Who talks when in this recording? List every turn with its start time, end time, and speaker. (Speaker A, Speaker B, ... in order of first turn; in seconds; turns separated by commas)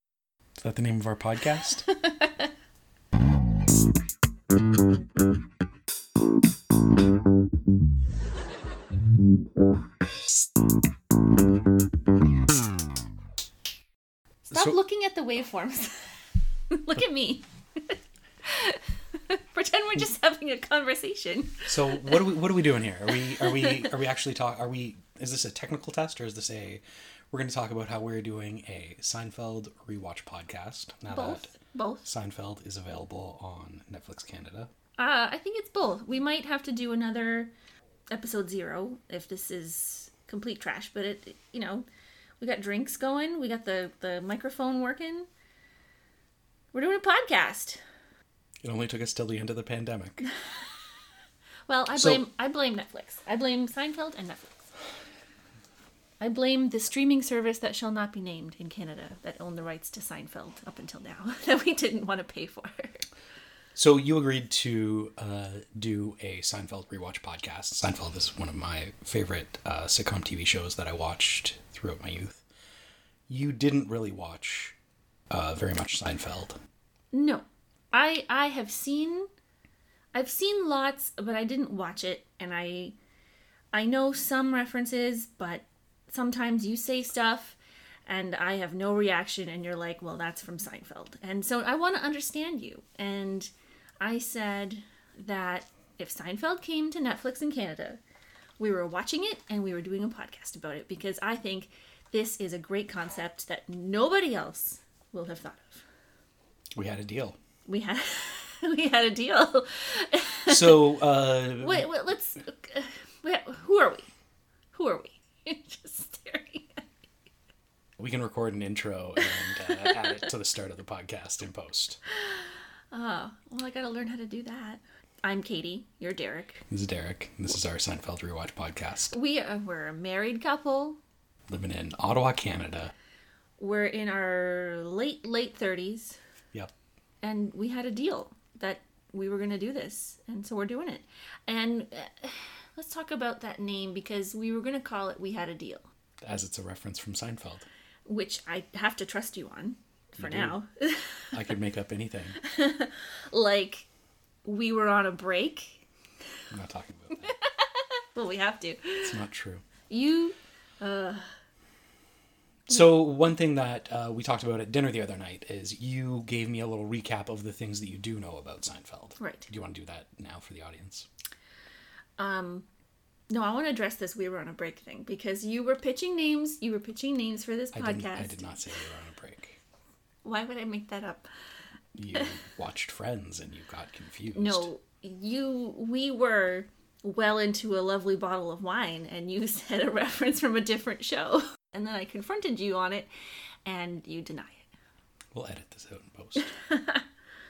Speaker A: 0.6-1.9, Speaker B: 1.9-2.5, Speaker B: 14.4-16.0, Speaker B: 16.7-22.2, Speaker A: 21.6-31.5, Speaker B: 23.3-23.9, Speaker B: 31.1-32.1, Speaker A: 32.0-34.7, Speaker B: 35.0-37.5, Speaker B: 38.1-41.9, Speaker B: 42.4-45.3, Speaker B: 46.7-47.8, Speaker A: 48.6-50.2, Speaker B: 51.7-54.6, Speaker A: 52.0-52.2, Speaker B: 56.2-63.0, Speaker A: 63.8-72.4, Speaker A: 73.3-74.7, Speaker A: 75.3-76.6, Speaker B: 77.1-79.3, Speaker B: 80.1-83.0, Speaker B: 83.7-98.0, Speaker B: 98.6-105.8, Speaker A: 106.7-107.4, Speaker B: 107.7-110.9, Speaker A: 110.5-111.9, Speaker B: 111.6-114.1, Speaker B: 114.7-116.8, Speaker A: 118.0-122.0, Speaker B: 119.2-120.2, Speaker B: 122.1-126.6, Speaker A: 126.7-129.1, Speaker B: 129.1-131.0, Speaker A: 131.5-132.9, Speaker B: 133.6-136.2, Speaker B: 137.2-145.8, Speaker A: 146.2-147.7, Speaker B: 148.1-151.3, Speaker A: 150.2-150.6, Speaker A: 151.3-152.4, Speaker B: 152.4-153.9, Speaker B: 154.4-155.8, Speaker A: 156.5-157.3, Speaker B: 157.2-159.2, Speaker A: 159.0-159.6, Speaker B: 159.9-161.3, Speaker A: 162.7-171.1, Speaker B: 169.2-169.5, Speaker B: 172.2-172.7, Speaker B: 173.3-178.5, Speaker A: 177.7-179.6, Speaker B: 180.2-181.3, Speaker A: 181.9-184.7, Speaker B: 184.3-193.1, Speaker B: 193.7-194.7, Speaker A: 195.3-196.5, Speaker B: 196.5-197.0